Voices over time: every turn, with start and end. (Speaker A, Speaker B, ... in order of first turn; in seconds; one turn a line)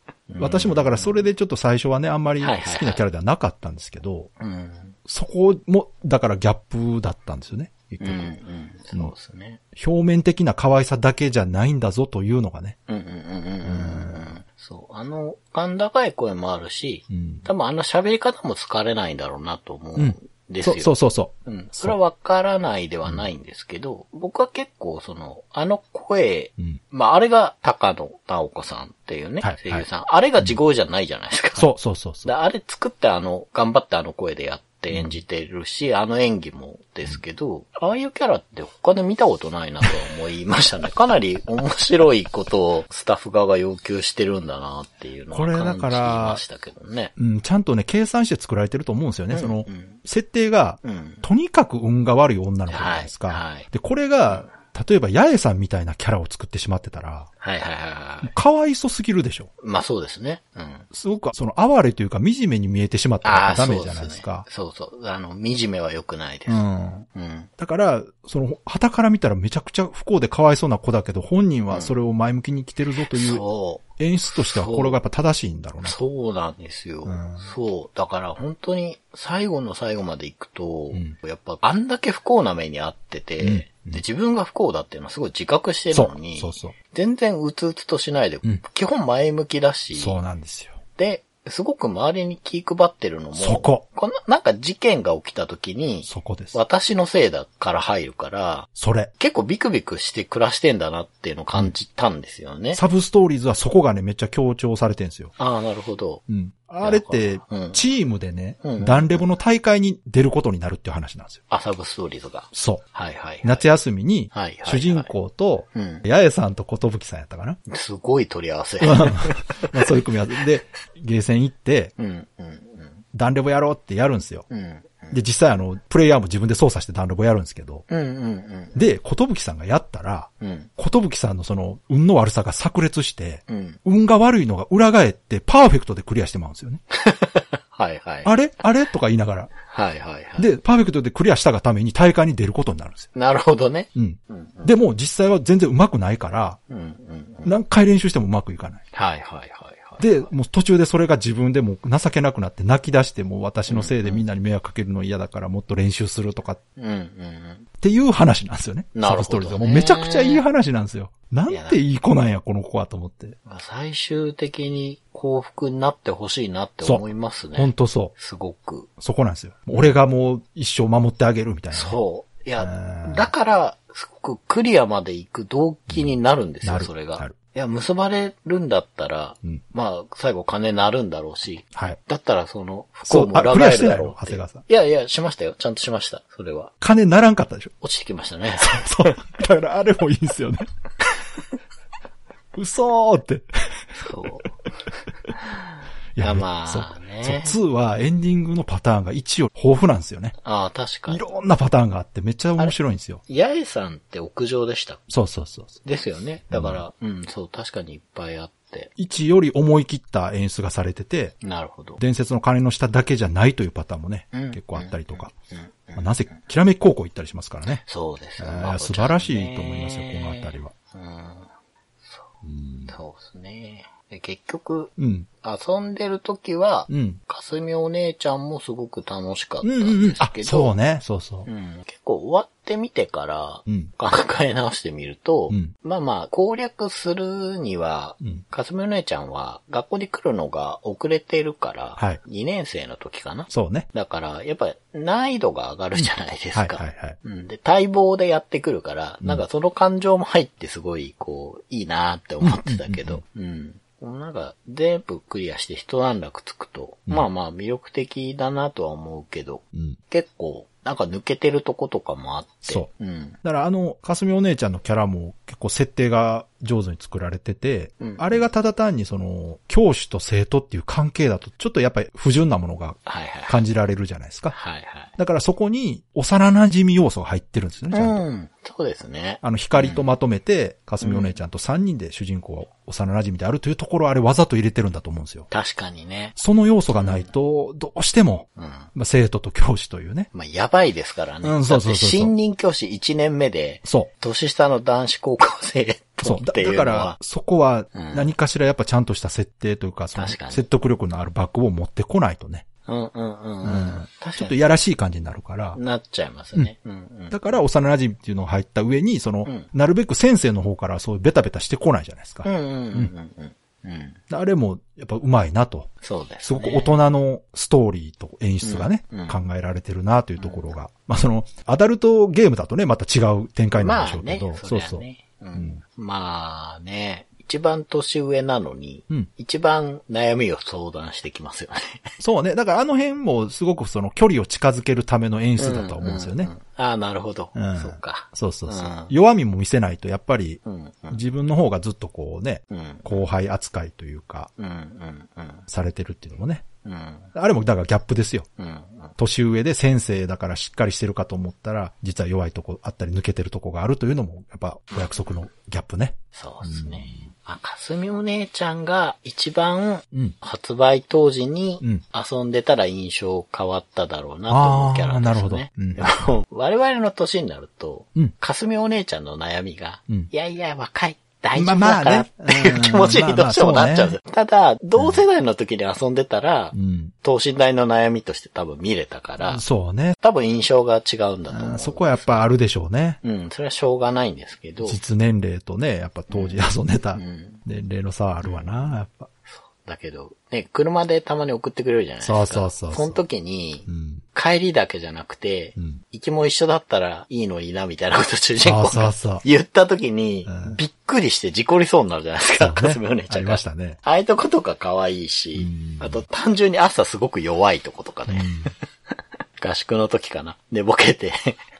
Speaker A: 0.3-1.2
Speaker B: 0.4-4.3
Speaker A: 2.4-3.0
Speaker A: 4.4-5.0
Speaker B: 5.0-8.4
Speaker A: 8.0-9.6
Speaker B: 9.7-12.8
Speaker A: 12.9-20.9
Speaker B: 13.6-14.3
Speaker B: 17.1-17.4
Speaker B: 20.0-22.0
Speaker A: 21.4-31.7
Speaker B: 29.4-29.9
Speaker B: 31.6-32.3
Speaker A: 32.2-47.1
Speaker B: 45.3-46.4
Speaker B: 47.2-57.3
Speaker A: 49.3-50.0
Speaker A: 50.8-51.2
Speaker A: 52.7-53.7
Speaker A: 54.3-54.5
Speaker A: 57.4-58.3
Speaker B: 58.2-59.5
Speaker A: 59.6-60.9
Speaker B: 60.9-64.4
Speaker A: 63.2-67.5
Speaker B: 66.5-67.0
Speaker B: 67.6-73.4
Speaker A: 73.1-75.0
Speaker B: 74.0-76.0
Speaker A: 75.8-90.2
Speaker B: 77.0-77.5
Speaker B: 83.4-84.0
Speaker B: 85.9-86.8
Speaker B: 89.9-90.8
Speaker A: 91.0-102.8
Speaker B: 93.3-93.8
Speaker B: 96.0-96.5
Speaker B: 98.8-99.1
Speaker B: 102.7-105.3
Speaker A: 105.4-106.2
Speaker B: 106.3-111.4
Speaker A: 106.8-107.8
Speaker A: 108.6-109.2
Speaker A: 111.5-113.7
Speaker B: 112.5-112.8
Speaker B: 113.4-117.6
Speaker A: 114.3-115.1
Speaker A: 115.7-116.0
Speaker A: 117.7-120.0
Speaker B: 118.8-121.9
Speaker A: 122.0-123.0
Speaker B: 123.1-124.5
Speaker A: 124.5-125.2
Speaker B: 125.1-127.8
Speaker A: 127.9-128.8
Speaker B: 128.7-136.8
Speaker A: 130.4-130.7
Speaker A: 133.5-133.8
Speaker A: 136.9-138.3
Speaker B: 138.2-139.5
Speaker A: 139.6-140.5
Speaker B: 140.4-143.1
Speaker A: 143.1-144.7
Speaker B: 143.9-146.6
Speaker A: 146.7-147.5
Speaker B: 147.4-148.8
Speaker A: 148.9-150.3
Speaker B: 150.0-156.6
Speaker A: 153.7-154.2
Speaker A: 156.8-157.7
Speaker B: 157.8-163.3
Speaker A: 158.9-160.4
Speaker A: 161.5-161.8
Speaker A: 163.4-168.9
Speaker B: 167.5-168.1
Speaker B: 169.0-172.0
Speaker A: 171.7-186.7
Speaker B: 172.6-173.3
Speaker B: 176.6-177.3
Speaker B: 183.1-184.6
Speaker B: 186.8-187.7
Speaker A: 187.8-189.2
Speaker B: 188.6-190.7
Speaker B: 192.5-193.5
Speaker A: 193.9-194.6
Speaker A: 195.3-195.6
Speaker B: 196.2-200.3
Speaker A: 196.2-197.6
Speaker A: 200.4-201.2
Speaker B: 201.1-203.2
Speaker A: 203.3-205.0
Speaker B: 205.1-205.8
Speaker A: 205.8-208.9
Speaker B: 206.5-206.8
Speaker B: 209.0-211.4
Speaker A: 211.4-212.0
Speaker B: 212.0-215.3
Speaker A: 214.3-216.4
Speaker B: 215.9-217.8
Speaker A: 217.8-221.5
Speaker B: 218.4-220.7
Speaker A: 222.0-222.3
Speaker B: 222.4-222.9
Speaker A: 222.9-230.7
Speaker B: 225.0-225.3
Speaker B: 226.9-227.2
Speaker B: 229.6-231.5
Speaker A: 231.4-263.4
Speaker B: 243.5-243.9
Speaker B: 246.0-247.2
Speaker B: 252.4-253.2
Speaker B: 259.7-260.0
Speaker B: 263.4-274.6
Speaker A: 268.0-268.5
Speaker A: 273.1-273.6
Speaker A: 274.5-275.1
Speaker B: 275.2-278.2
Speaker A: 277.9-280.0
Speaker B: 279.4-285.5
Speaker A: 281.0-281.4
Speaker A: 285.5-286.4
Speaker B: 286.4-290.3
Speaker A: 286.9-287.3
Speaker A: 288.6-288.9
Speaker A: 290.3-297.2
Speaker B: 291.4-292.3
Speaker B: 293.8-294.1
Speaker B: 296.2-302.6
Speaker A: 297.9-298.3
Speaker A: 300.1-300.6
Speaker A: 302.9-304.6
Speaker B: 303.6-305.8
Speaker A: 305.7-307.6
Speaker B: 307.3-313.1
Speaker A: 309.4-309.7
Speaker A: 312.4-314.2
Speaker B: 314.3-315.9
Speaker A: 316.0-317.0
Speaker B: 316.4-325.0
Speaker A: 318.6-319.4
Speaker A: 320.4-320.7
Speaker A: 323.8-332.1
Speaker B: 332.2-336.5
Speaker A: 335.6-339.1
Speaker B: 337.5-344.5
Speaker A: 340.6-341.2
Speaker A: 342.7-343.3
Speaker A: 344.6-345.7
Speaker B: 345.7-346.6
Speaker A: 346.8-347.3
Speaker B: 347.3-348.5
Speaker A: 348.6-349.2
Speaker B: 349.2-357.3
Speaker A: 354.9-355.4
Speaker A: 356.3-379.6
Speaker B: 364.5-366.3
Speaker B: 371.5-374.2
Speaker B: 375.0-375.2
Speaker B: 376.7-377.1
Speaker B: 379.4-380.2
Speaker A: 380.2-382.5
Speaker B: 381.5-383.2
Speaker A: 383.2-385.0
Speaker B: 384.8-389.3
Speaker A: 386.3-386.6
Speaker A: 387.1-387.6
Speaker A: 388.4-388.7
Speaker A: 389.5-408.7
Speaker B: 392.2-393.2
Speaker B: 393.9-394.2
Speaker B: 395.8-396.0
Speaker B: 398.6-399.4
Speaker B: 400.4-400.8
Speaker B: 402.6-404.0
Speaker B: 405.6-406.2
Speaker B: 408.3-408.7
Speaker A: 409.6-411.6